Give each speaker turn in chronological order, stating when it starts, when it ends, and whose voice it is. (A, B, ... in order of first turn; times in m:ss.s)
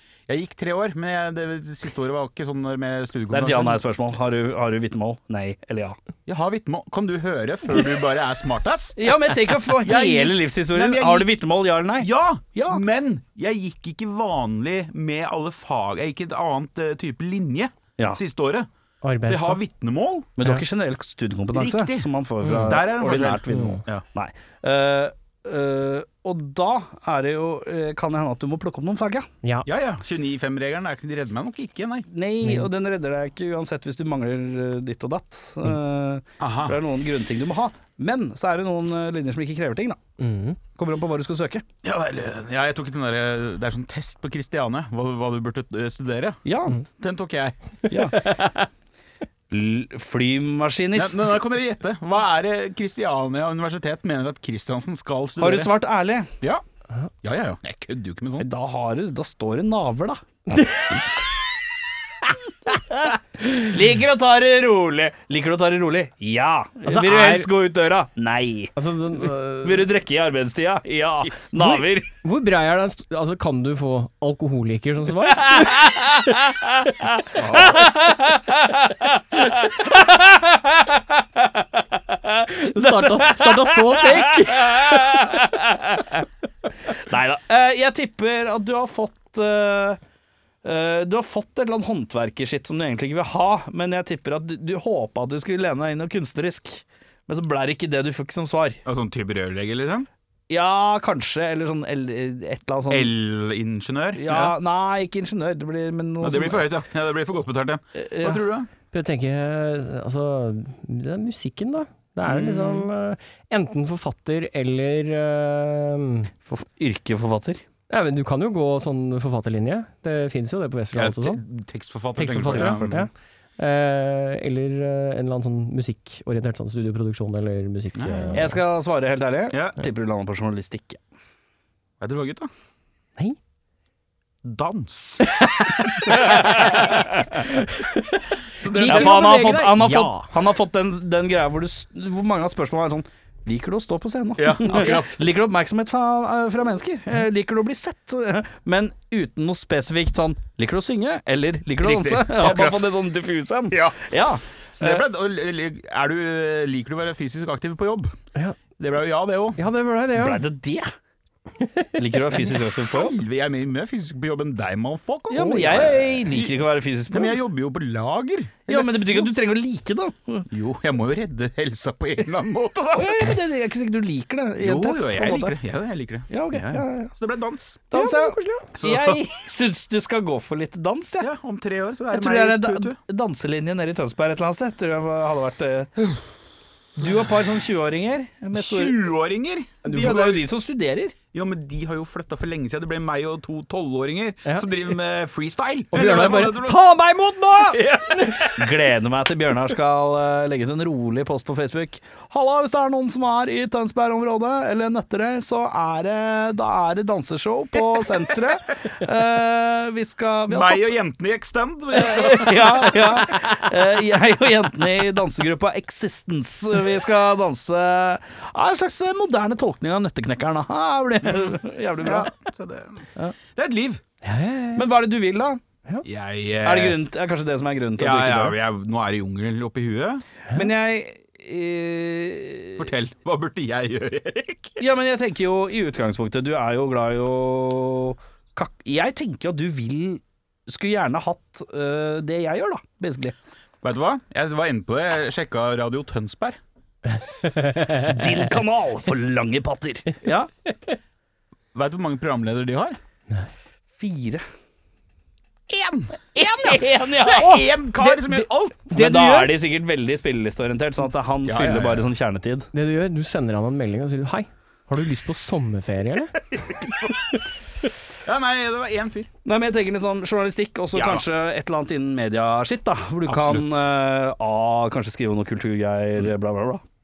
0:00.3-0:03.8 A
0:03.3-0:06.0 B
0:06.2-0:11.3 A
0:09.0-0:12.8 B
0:12.0-0:18.7 A
0:19.0-0:19.6 C
0:19.2-0:20.3 A
0:20.4-0:29.3 B
0:21.5-0:22.1 A
0:22.4-0:22.8 C
0:22.6-0:24.0 A
0:23.5-0:23.8 C
0:29.6-0:32.1 A
0:32.1-0:40.0 B
0:32.4-0:32.7 C
0:36.4-0:36.8 A
0:40.2-0:40.6 C
0:40.7-0:41.6 B
0:41.8-0:46.4 A
0:46.4-0:46.8 B
0:46.9-0:47.6 A
0:47.9-0:48.2 B
0:48.1-0:48.6 C
0:49.5-0:51.4 B
0:50.9-0:55.7 A
0:55.4-0:56.3 B
0:57.2-0:58.5 A
0:58.4-1:00.2 B
1:03.5-1:12.1 B
1:06.9-1:07.5 C
1:08.8-1:09.9 C
1:11.6-1:16.3 C
1:15.3-1:16.9 B
1:17.4-1:17.8 A
1:17.5-1:26.2 B
1:22.5-1:25.4 C
1:26.8-1:30.0 B
1:30.6-1:38.8 B
1:38.8-1:40.1 A
1:40.5-1:43.1 B
1:42.9-1:44.6 A
1:44.1-1:46.7 B
1:46.2-1:48.7 A
1:47.9-1:48.4 B
1:48.9-1:56.3 C
1:52.3-1:52.8 A
1:56.4-1:57.6 B
1:57.9-2:01.4 C
2:00.9-2:03.0 A
2:02.2-2:08.6 C
2:02.5-2:03.1 B
2:08.0-2:08.4 A
2:08.3-2:11.0 B
2:09.5-2:09.8 A
2:12.0-2:12.5 A
2:14.4-2:15.4 A
2:15.4-2:20.3 C
2:16.1-2:17.3 B
2:16.1-2:16.5 A
2:18.6-2:19.6 A
2:18.8-2:35.0 B
2:24.4-2:25.2 A
2:31.8-2:33.0 A
2:33.7-2:34.1 A
2:34.7-2:38.2 A
2:38.8-2:39.6 A
2:39.6-2:40.4 C
2:40.1-2:40.9 B
2:41.6-2:42.4 C
2:41.9-2:43.2 B
2:42.9-2:46.6 A
2:45.3-2:47.4 B
2:45.4-2:46.0 C
2:47.1-2:49.3 A
2:48.7-2:50.5 B
2:50.5-2:53.4 A
2:52.9-2:55.5 B
2:54.6-2:57.8 A
2:56.3-2:57.1 B
2:57.9-3:01.3 B
2:57.9-2:58.7 C
2:58.7-2:59.2 A
3:01.2-3:03.0 A
3:02.1-3:06.2 B
3:07.0-3:09.0 B
3:08.5-3:10.4 A
3:09.8-3:11.1 B
3:09.9-3:10.1 C
3:11.3-3:16.8 A
3:15.9-3:18.5 C
3:17.7-3:18.5 A
3:18.5-3:30.8 B
3:30.5-3:33.2 A
3:31.9-3:42.3 B
3:41.2-3:44.0 A
3:44.2-3:44.8 C
3:44.7-3:45.6 B
3:46.0-3:47.0 A
3:46.6-3:48.6 B
3:48.0-3:50.2 A
3:50.5-3:52.9 B
3:52.8-3:54.8 A
3:54.8-4:03.3 B
4:03.8-4:06.6 A
4:07.4-4:08.2 C
4:08.0-4:10.5 B
4:11.7-4:13.0 A
4:14.0-4:14.4 B
4:15.7-4:18.9 A
4:16.3-4:17.6 B
4:18.0-4:19.5 C
4:18.9-4:22.7 B
4:21.4-4:22.1 A
4:22.7-4:26.4 C
4:26.5-4:27.2 A
4:28.2-4:29.3 A
4:29.4-4:36.8 B
4:30.9-4:31.2 A
4:33.2-4:33.8 A